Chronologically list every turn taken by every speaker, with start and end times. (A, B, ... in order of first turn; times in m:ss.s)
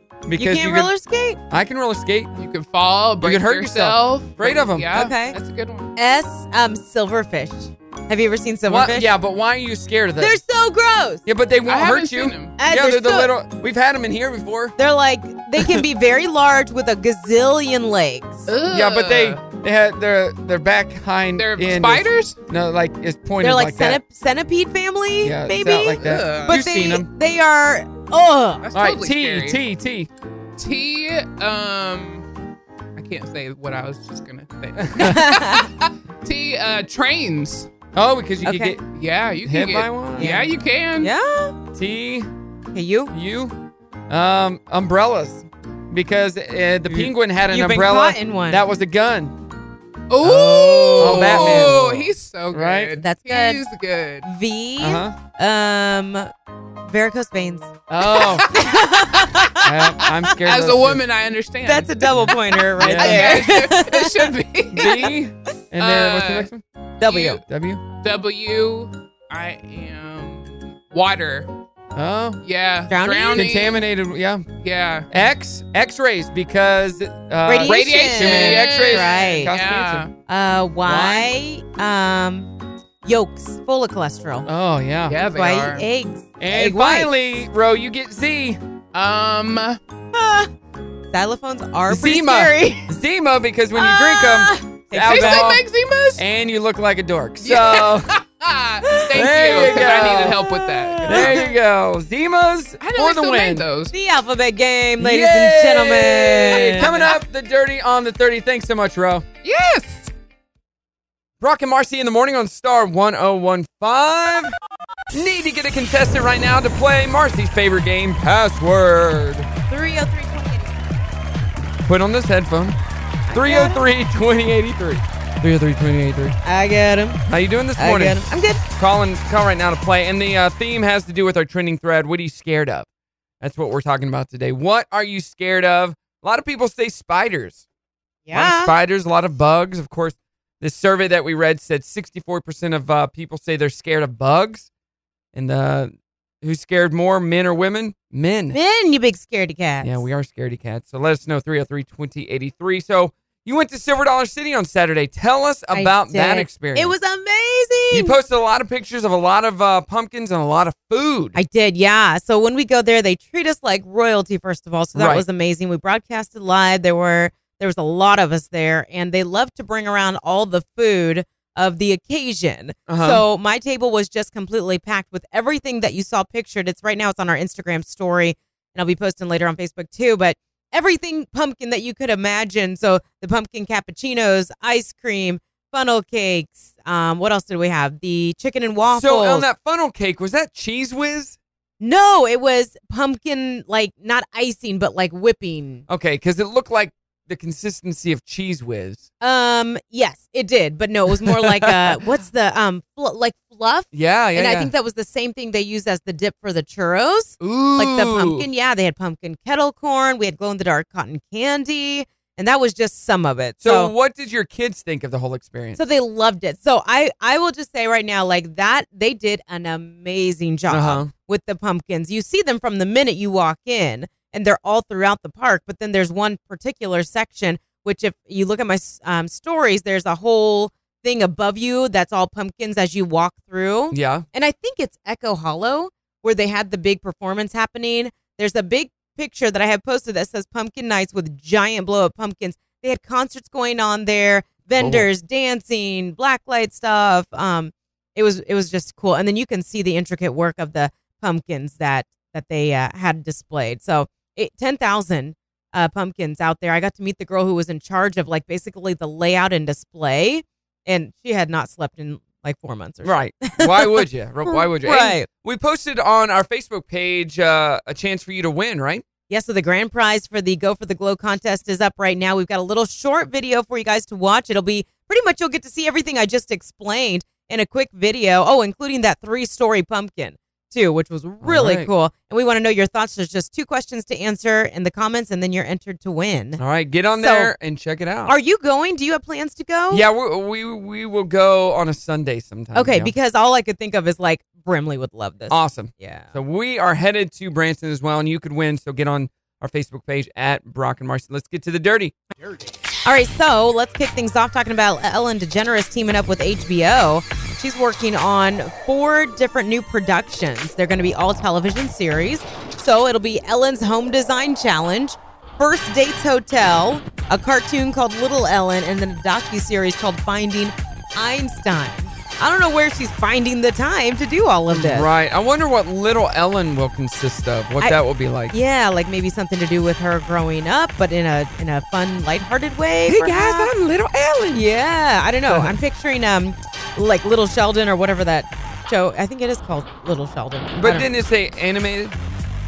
0:00.3-0:00.9 A
0:00.4-0:01.4 B
0:01.5-0:02.3 A
0:02.4-0:05.9 C
0:03.2-0:05.1 A
0:04.9-0:05.4 B
0:06.0-0:09.1 B
0:08.7-0:10.4 A
0:10.2-0:11.3 B
0:11.3-0:14.8 A
0:11.6-0:12.6 C
0:12.6-0:13.3 B
0:14.8-0:18.5 B
0:18.5-0:19.4 C
0:18.7-0:24.0 A
0:21.4-0:22.4 C
0:23.4-0:28.7 B
0:25.2-0:27.1 A
0:26.0-0:26.6 C
0:28.6-0:29.6 C
0:28.8-0:30.1 A
0:30.6-0:32.3 C
0:33.0-0:37.7 C
0:34.9-0:35.3 A
0:35.0-0:35.7 B
0:37.9-0:38.8 A
0:38.4-0:38.8 B
0:38.9-0:41.1 C
0:39.4-0:40.3 A
0:40.2-0:41.6 B
0:41.7-0:42.3 A
0:42.7-0:43.1 B
0:43.1-0:43.6 A
0:44.1-0:49.4 A
0:46.9-0:48.6 B
0:50.1-0:54.3 C
0:50.2-0:51.8 B
0:51.0-0:53.0 A
0:53.0-0:53.6 B
0:54.2-0:56.3 B
0:54.8-0:55.2 A
0:56.9-0:57.7 B
0:57.9-0:58.5 A
0:58.0-1:05.1 C
0:58.4-0:59.6 B
0:59.6-1:01.0 A
1:01.7-1:04.3 B
1:02.2-1:03.6 A
1:04.7-1:06.6 A
1:04.8-1:05.1 B
1:05.8-1:07.4 C
1:07.0-1:07.4 B
1:07.5-1:07.8 A
1:08.0-1:11.5 C
1:12.0-1:12.4 A
1:12.4-1:13.8 C
1:12.9-1:13.5 B
1:13.4-1:14.4 A
1:14.6-1:15.1 C
1:15.1-1:20.1 A
1:17.5-1:19.5 B
1:17.6-1:20.1 C
1:20.3-1:22.5 B
1:20.9-1:21.2 A
1:23.0-1:24.5 B
1:24.5-1:25.2 A
1:25.1-1:25.9 C
1:25.3-1:27.1 B
1:26.4-1:28.6 A
1:28.9-1:29.8 C
1:30.1-1:30.5 B
1:31.1-1:32.9 B
1:31.9-1:35.6 A
1:33.8-1:35.6 B
1:35.0-1:36.2 C
1:36.2-1:38.1 A
1:37.4-1:41.5 C
1:38.8-1:41.4 B
1:39.1-1:40.4 A
1:41.0-1:43.7 A
1:42.8-1:43.9 C
1:43.9-1:47.0 B
1:45.0-1:49.3 A
1:46.6-1:47.2 C
1:49.4-1:50.1 C
1:51.4-1:54.6 A
1:55.1-1:59.5 A
1:59.7-2:00.8 B
2:01.8-2:02.8 A
2:03.3-2:03.8 B
2:03.3-2:06.4 A
2:06.4-2:07.2 B
2:07.3-2:12.9 A
2:07.8-2:08.6 B
2:13.4-2:17.7 A
2:18.3-2:18.7 B
2:18.3-2:24.7 A
2:25.3-2:28.6 A
2:28.5-2:30.0 B
2:29.8-2:37.0 A
2:35.7-2:38.2 B
2:37.9-2:41.4 A
2:41.3-3:09.4 B
2:45.0-2:45.2 A
2:52.9-2:53.2 A
3:08.9-3:11.4 A
3:11.8-3:15.8 B
3:15.9-3:19.1 A
3:19.2-3:33.9 B
3:21.3-3:22.0 A
3:23.9-3:24.7 A
3:27.4-3:28.5 A
3:33.6-3:35.8 A
3:35.8-4:25.3 B
3:40.7-3:41.1 A
3:53.9-3:54.3 A
4:04.8-4:05.1 A
4:23.0-4:29.0 A
4:29.3-4:46.6 B
4:41.4-4:41.9 A
4:46.6-4:48.3 A
4:47.2-4:47.5 B
4:48.3-4:50.0 B
4:49.9-4:53.1 A
4:52.7-4:56.3 B
4:55.5-5:02.2 A
5:03.0-5:25.1 B
5:24.7-5:28.6 A
5:28.5-5:33.7 B
5:33.1-5:34.6 A
5:34.5-5:41.1 B
5:35.5-5:35.7 A
5:40.8-5:42.2 A